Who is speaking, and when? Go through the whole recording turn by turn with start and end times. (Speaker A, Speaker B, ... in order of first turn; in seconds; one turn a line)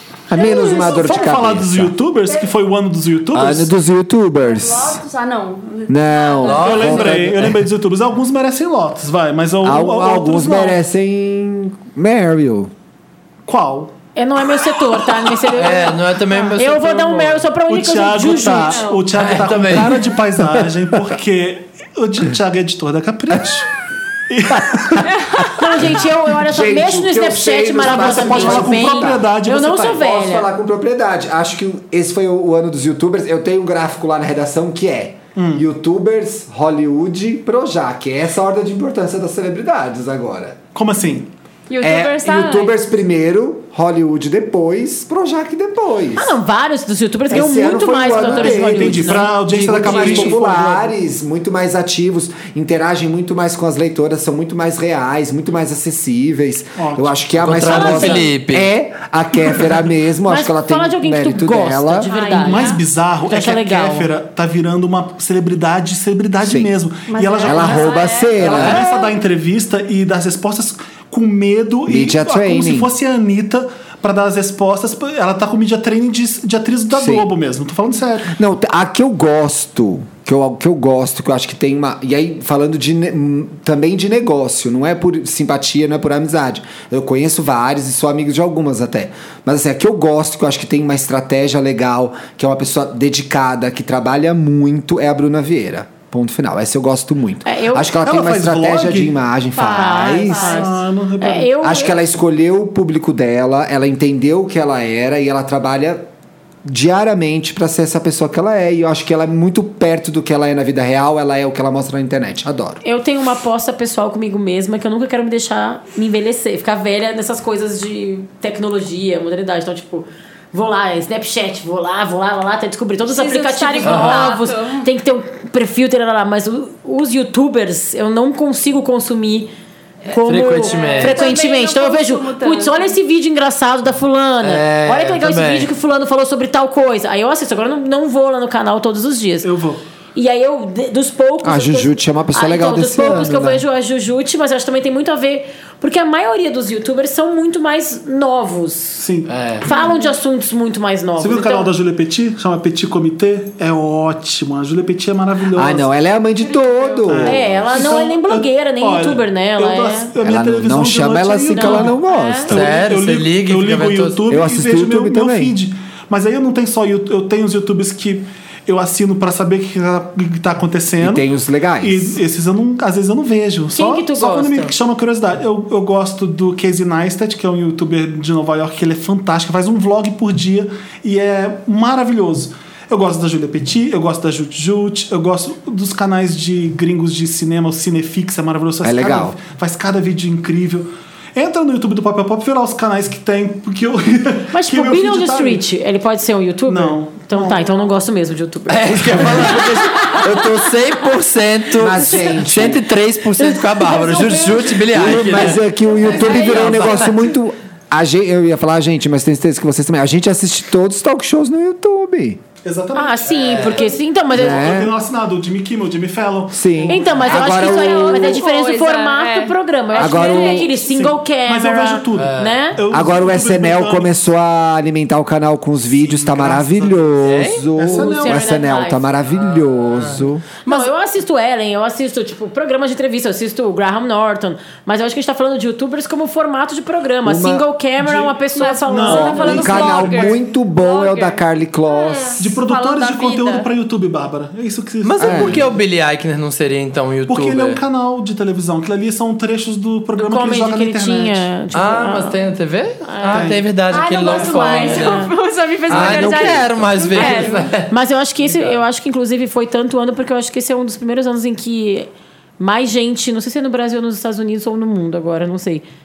Speaker A: 0.3-1.9
Speaker B: 0.4-1.3
Speaker C: 0.4-3.7
Speaker A: 3.3-5.0
Speaker D: 4.4-7.0
Speaker A: 5.9-7.6
Speaker E: 6.4-7.1
Speaker C: 6.5-10.8
Speaker A: 9.6-12.7
Speaker C: 13.5-13.9
Speaker B: 14.2-18.9
Speaker E: 15.5-17.5
Speaker C: 17.7-23.7
Speaker D: 18.2-19.1
Speaker E: 19.1-20.0
Speaker C: 24.3-25.2
Speaker D: 25.1-25.7
Speaker B: 25.6-30.5
Speaker A: 25.8-29.2
Speaker C: 27.8-30.1
Speaker A: 29.9-40.6
Speaker C: 35.4-35.6
Speaker C: 40.8-41.3
Speaker D: 41.7-42.9
Speaker A: 41.8-46.3
Speaker B: 46.2-50.3
Speaker A: 47.3-62.1
Speaker C: 47.3-50.9
Speaker C: 56.8-57.1
Speaker E: 57.4-58.7
Speaker B: 57.7-58.3
Speaker B: 60.3-62.7
Speaker D: 62.0-62.8
Speaker C: 62.3-78.3
Speaker B: 63.2-64.1
Speaker A: 66.4-66.7
Speaker D: 67.1-69.2
Speaker A: 67.4-68.9
Speaker E: 68.4-68.8
Speaker A: 71.9-72.9
Speaker A: 76.9-77.3
Speaker A: 78.3-100.6
Speaker B: 97.5-97.9
Speaker C: 98.0-99.2
Speaker D: 99.5-100.7
Speaker B: 99.6-102.0
Speaker C: 100.2-101.6
Speaker A: 101.6-106.1
Speaker A: 106.7-112.8
Speaker B: 112.8-129.5
Speaker D: 123.1-124.9
Speaker E: 123.8-124.3
Speaker B: 130.0-139.5
Speaker E: 130.1-131.4
Speaker D: 130.6-132.9
Speaker E: 134.4-135.7
Speaker C: 139.4-139.8
Speaker B: 140.2-149.0
Speaker A: 141.4-143.6
Speaker C: 149.0-150.0
Speaker E: 149.3-149.7
Speaker B: 149.7-151.7
Speaker D: 149.7-150.1
Speaker C: 151.2-155.9
Speaker A: 155.6-157.9
Speaker D: 156.4-157.3
Speaker C: 157.1-162.0
Speaker B: 157.2-160.1
Speaker A: 160.2-162.7
Speaker B: 161.5-162.5
Speaker E: 162.5-164.2
Speaker C: 162.5-171.2
Speaker A: 164.3-165.6
Speaker A: 171.0-172.2
Speaker C: 171.8-195.6
Speaker B: 173.7-174.7
Speaker A: 188.8-189.4
Speaker B: 194.5-200.6
Speaker C: 196.7-197.9
Speaker E: 198.7-207.2
Speaker A: 201.8-202.8
Speaker B: 202.0-202.4
Speaker B: 203.4-207.2
Speaker A: 204.9-212.4
Speaker C: 212.6-213.8
Speaker B: 212.9-214.9
Speaker E: 213.3-213.9
Speaker A: 214.3-214.9
Speaker C: 214.4-217.3
Speaker A: 216.5-218.4
Speaker B: 216.9-222.8
Speaker D: 217.3-220.9
Speaker A: 220.0-220.7
Speaker C: 220.8-224.1
Speaker E: 222.2-222.6
Speaker A: 222.9-230.5
Speaker C: 225.9-227.1
Speaker E: 227.2-227.7
Speaker C: 227.8-228.5
Speaker B: 227.8-229.0
Speaker E: 229.3-230.9
Speaker B: 230.7-240.1
Speaker A: 237.2-237.7
Speaker C: 238.0-238.4
Speaker D: 238.5-240.4
Speaker C: 238.9-240.4
Speaker A: 239.1-242.4
Speaker B: 240.7-241.3
Speaker B: 242.0-242.4
Speaker D: 242.3-243.7
Speaker C: 242.4-245.8
Speaker E: 245.0-247.8
Speaker A: 245.2-245.7
Speaker C: 247.3-251.5
Speaker B: 250.2-252.4
Speaker E: 251.7-255.3
Speaker B: 253.1-253.6
Speaker C: 253.3-253.6
Speaker D: 253.9-257.6
Speaker B: 254.2-255.3
Speaker E: 255.9-257.9
Speaker B: 255.9-265.8
Speaker A: 256.0-256.5
Speaker E: 258.4-258.7